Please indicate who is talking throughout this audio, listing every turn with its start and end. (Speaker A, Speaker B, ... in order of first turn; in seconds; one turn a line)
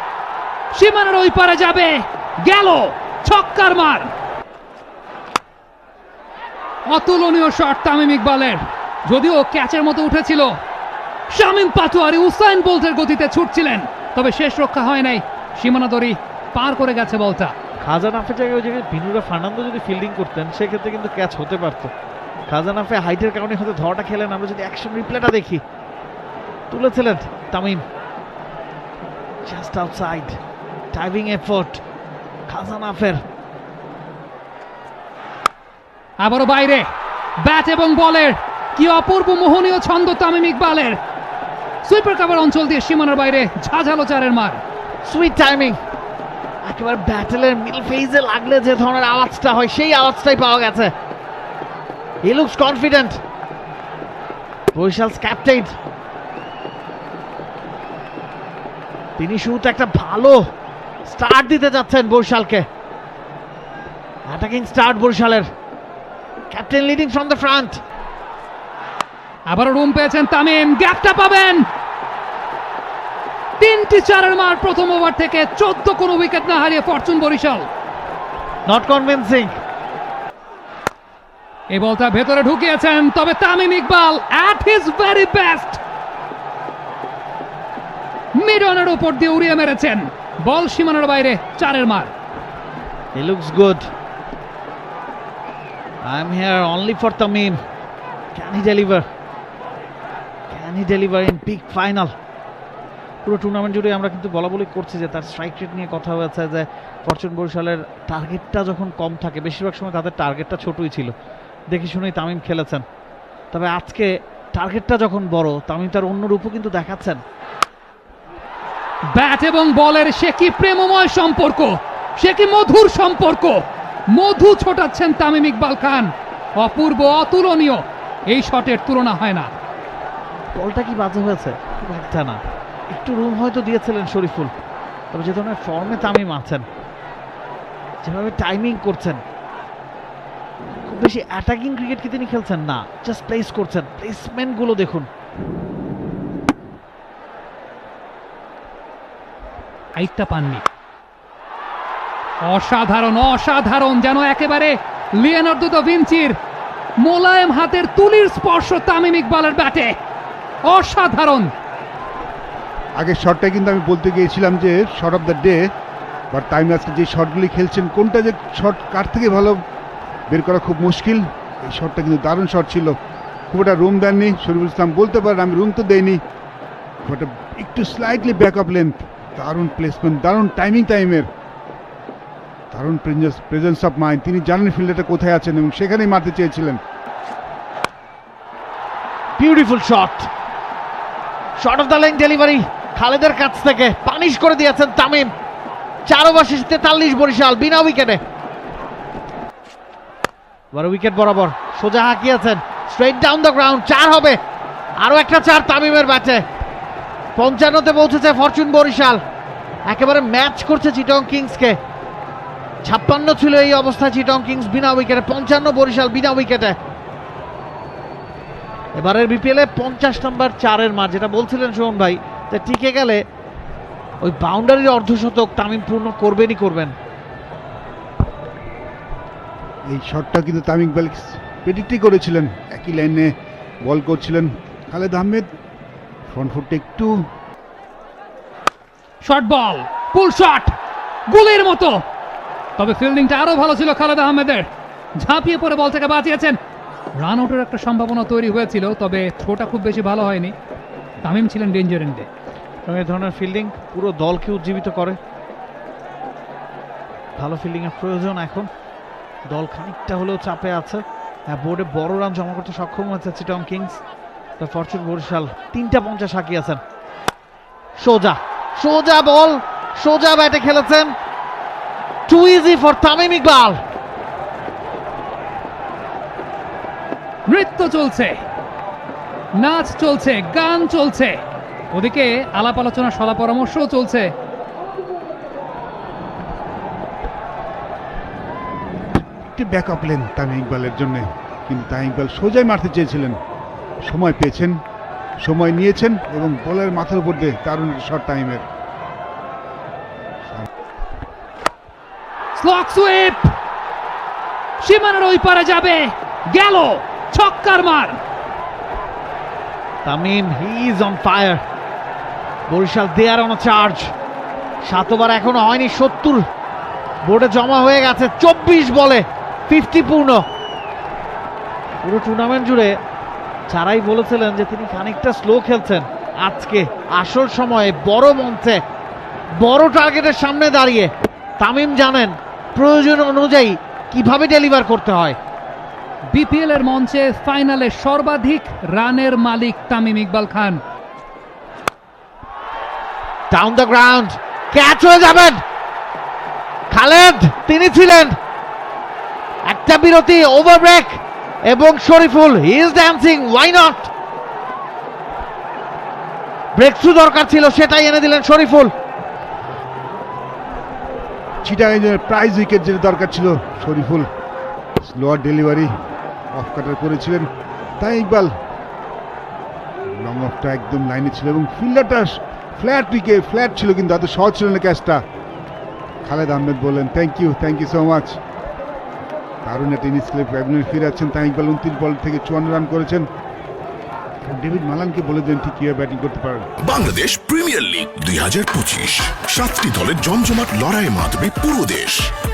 Speaker A: 0.7-4.1
Speaker A: 6.9-10.6
Speaker A: 11.3-17.5
Speaker B: 17.8-21.9
Speaker B: 22.5-25.6
Speaker B: 26.7-27.8
Speaker B: 29.4-30.4
Speaker B: 30.9-31.8
Speaker B: 32.5-33.2
Speaker A: 36.2-36.9
Speaker A: 37.4-41.0
Speaker A: 41.8-44.6
Speaker B: 45.0-45.8
Speaker B: 46.6-50.9
Speaker B: 52.2-53.2
Speaker B: 54.7-55.7
Speaker B: 59.2-60.4
Speaker B: 61.0-62.6
Speaker B: 64.3-65.5
Speaker B: 66.5-67.8
Speaker A: 69.5-71.7
Speaker A: 73.6-77.7
Speaker B: 78.7-79.5
Speaker A: 81.7-85.8
Speaker A: 88.3-92.1
Speaker B: 93.1-93.9
Speaker B: 96.0-97.6
Speaker B: 98.3-99.0
Speaker B: 100.5-102.1
Speaker B: 103.2-111.1
Speaker B: 111.7-112.8
Speaker B: 113.5-117.2
Speaker A: 119.1-129.5
Speaker B: 130.5-134.5
Speaker B: 135.1-136.6
Speaker B: 138.0-139.2
Speaker B: 140.8-145.1
Speaker A: 149.9-150.6
Speaker A: 152.4-156.3
Speaker A: 157.0-159.9
Speaker A: 160.6-161.5
Speaker C: 163.0-165.7
Speaker C: 166.3-169.6
Speaker C: 170.3-173.0
Speaker C: 173.5-176.2
Speaker C: 177.0-181.3
Speaker C: 182.7-186.8
Speaker B: 189.4-190.3
Speaker B: 191.6-195.3
Speaker B: 196.1-198.2
Speaker B: 200.7-204.4
Speaker B: 205.0-206.4
Speaker B: 207.3-209.2
Speaker B: 209.9-211.8
Speaker B: 212.8-216.8
Speaker B: 218.9-223.2
Speaker B: 224.2-226.9
Speaker C: 229.9-233.3
Speaker C: 233.8-235.5
Speaker C: 236.3-237.2
Speaker A: 239.2-240.7
Speaker A: 241.3-242.0
Speaker A: 242.8-246.6
Speaker A: 247.2-250.5
Speaker A: 251.2-252.3
Speaker B: 252.8-255.2
Speaker B: 257.4-258.7
Speaker B: 259.5-264.0
Speaker B: 264.6-266.8
Speaker B: 268.0-271.1
Speaker B: 272.3-273.8
Speaker A: 277.5-278.4
Speaker A: 279.6-281.4
Speaker A: 281.9-284.3
Speaker C: 289.4-293.4
Speaker C: 294.0-294.8
Speaker C: 295.4-298.6
Speaker A: 302.6-303.5
Speaker A: 304.8-308.2
Speaker B: 310.0-311.6
Speaker B: 312.7-314.1
Speaker B: 314.8-316.4
Speaker B: 317.2-320.4
Speaker B: 322.0-322.9
Speaker B: 323.7-328.8
Speaker B: 329.6-335.4
Speaker A: 336.3-340.8
Speaker B: 343.5-345.6
Speaker B: 346.9-348.4
Speaker B: 349.6-354.1
Speaker B: 356.7-358.9
Speaker C: 361.6-364.3
Speaker C: 365.0-365.9
Speaker C: 366.5-368.5
Speaker C: 370.1-375.2
Speaker C: 376.2-378.4
Speaker C: 379.6-383.3
Speaker C: 384.4-386.7
Speaker D: 387.0-392.2